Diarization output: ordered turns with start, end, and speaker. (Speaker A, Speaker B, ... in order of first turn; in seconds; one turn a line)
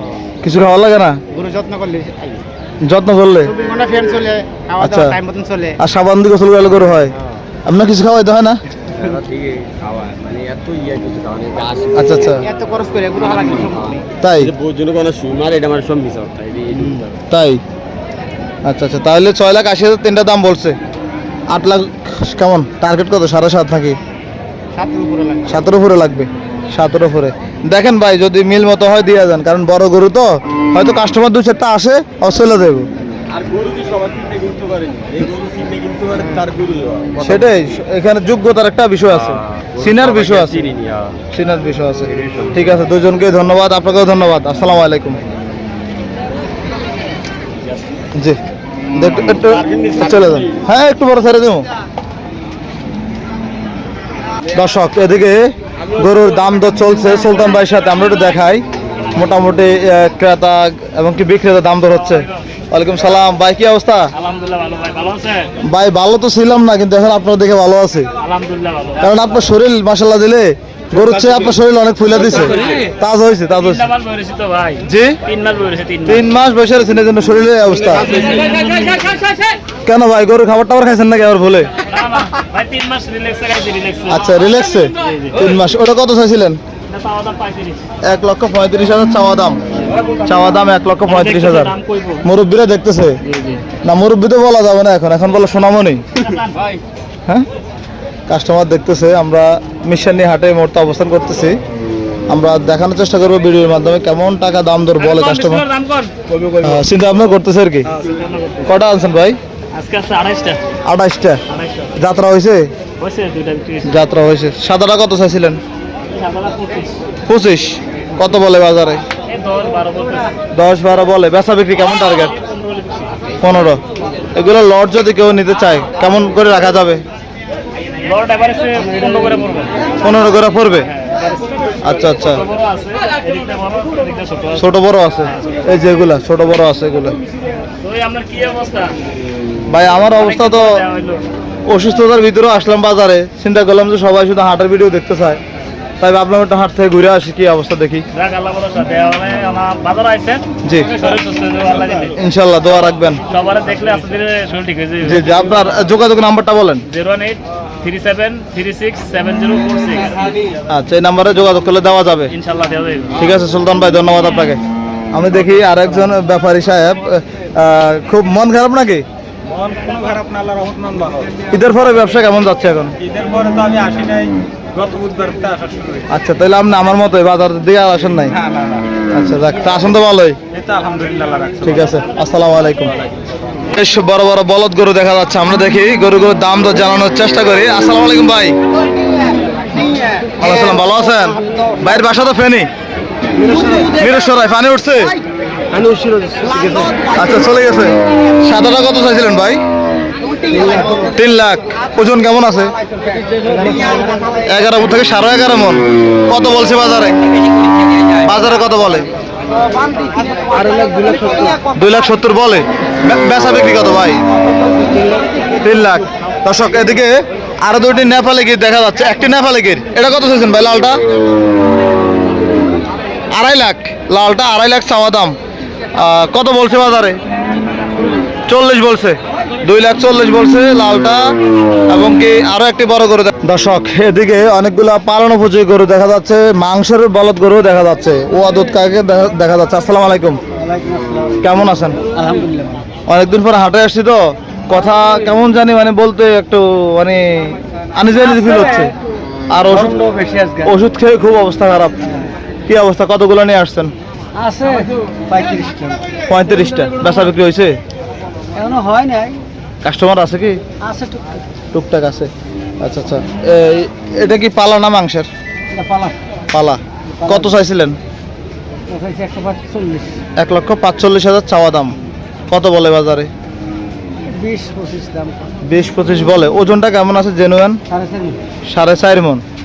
Speaker A: 0.4-1.2
Speaker B: 1.3-2.4
Speaker A: 2.9-3.5
Speaker B: 3.4-5.8
Speaker A: 4.8-5.2
Speaker A: 5.8-7.1
Speaker A: 7.7-8.6
Speaker C: 9.0-12.2
Speaker A: 11.9-12.4
Speaker B: 12.2-14.1
Speaker C: 13.3-13.8
Speaker A: 14.2-14.6
Speaker C: 14.4-17.1
Speaker B: 16.8-17.1
Speaker A: 17.3-17.6
Speaker A: 18.7-20.8
Speaker A: 21.5-24.0
Speaker B: 24.7-25.6
Speaker A: 25.5-32.9
Speaker C: 33.3-37.6
Speaker B: 36.1-36.5
Speaker A: 37.2-40.7
Speaker C: 39.8-41.2
Speaker A: 41.3-45.2
Speaker C: 42.2-42.5
Speaker A: 48.9-51.7
Speaker C: 49.5-50.5
Speaker A: 54.5-64.1
Speaker D: 64.2-65.5
Speaker A: 65.6-68.1
Speaker D: 68.2-69.2
Speaker A: 69.0-73.9
Speaker D: 72.4-72.9
Speaker D: 73.6-76.2
Speaker A: 74.8-75.2
Speaker A: 76.1-78.3
Speaker D: 77.9-79.6
Speaker A: 79.8-81.7
Speaker D: 81.8-84.4
Speaker A: 84.1-86.6
Speaker D: 84.9-85.4
Speaker D: 86.9-87.8
Speaker A: 88.0-89.6
Speaker A: 90.2-93.2
Speaker D: 91.1-92.2
Speaker D: 93.2-93.6
Speaker A: 93.8-96.1
Speaker D: 96.2-96.8
Speaker A: 98.3-101.6
Speaker A: 102.3-105.6
Speaker D: 105.0-106.1
Speaker A: 106.6-108.0
Speaker D: 108.0-108.7
Speaker A: 108.7-109.4
Speaker D: 109.7-110.6
Speaker A: 110.8-111.4
Speaker D: 111.5-111.9
Speaker A: 112.0-112.7
Speaker D: 113.0-114.0
Speaker A: 113.8-115.6
Speaker D: 116.1-117.0
Speaker A: 117.3-119.0
Speaker D: 119.3-120.3
Speaker A: 120.5-122.3
Speaker D: 122.4-123.3
Speaker A: 123.4-123.8
Speaker A: 124.3-127.0
Speaker D: 128.0-129.8
Speaker A: 130.0-130.9
Speaker D: 130.8-134.6
Speaker A: 131.8-132.4
Speaker A: 134.6-137.2
Speaker D: 137.8-138.9
Speaker A: 139.7-140.7
Speaker D: 140.1-141.3
Speaker A: 141.7-145.4
Speaker A: 146.0-148.1
Speaker D: 148.1-152.2
Speaker A: 150.6-151.1
Speaker A: 152.1-153.2
Speaker D: 153.3-155.7
Speaker A: 155.0-156.8
Speaker D: 156.9-160.4
Speaker A: 160.7-162.3
Speaker D: 162.3-163.2
Speaker A: 163.2-164.6
Speaker A: 165.1-169.1
Speaker C: 169.5-171.4
Speaker A: 171.5-172.9
Speaker C: 173.0-176.0
Speaker A: 176.1-178.4
Speaker C: 178.4-178.8
Speaker A: 179.1-180.4
Speaker C: 180.5-181.8
Speaker A: 181.6-182.9
Speaker A: 183.7-188.6
Speaker C: 189.9-190.3
Speaker A: 190.4-192.7
Speaker C: 193.5-193.9
Speaker A: 193.9-195.2
Speaker C: 195.7-197.0
Speaker A: 197.1-199.6
Speaker E: 200.5-201.1
Speaker B: 200.5-201.0
Speaker A: 201.0-202.8
Speaker E: 203.3-204.4
Speaker B: 203.6-204.3
Speaker A: 204.4-207.2
Speaker A: 208.2-209.1
Speaker E: 210.6-211.4
Speaker A: 211.6-214.2
Speaker A: 215.6-221.0
Speaker A: 223.3-225.3
Speaker A: 226.0-227.2
Speaker A: 228.5-231.3
Speaker A: 231.9-240.4
Speaker E: 240.5-241.4
Speaker A: 241.4-242.0
Speaker E: 242.1-242.9
Speaker A: 243.1-248.9
Speaker E: 248.2-248.9
Speaker A: 249.5-249.9
Speaker E: 249.7-250.8
Speaker A: 250.7-252.0
Speaker E: 252.1-252.3
Speaker A: 252.7-253.9
Speaker E: 254.3-256.1
Speaker A: 256.3-257.8
Speaker E: 258.5-259.4
Speaker A: 259.8-260.6
Speaker E: 260.8-261.4
Speaker A: 261.7-262.3
Speaker A: 262.8-265.3
Speaker E: 265.7-266.2
Speaker A: 266.5-268.0
Speaker E: 267.1-267.6
Speaker E: 268.9-270.2
Speaker A: 270.4-271.9
Speaker A: 272.5-273.3
Speaker E: 274.3-275.5
Speaker A: 275.7-277.8
Speaker E: 277.9-278.4
Speaker A: 278.7-279.4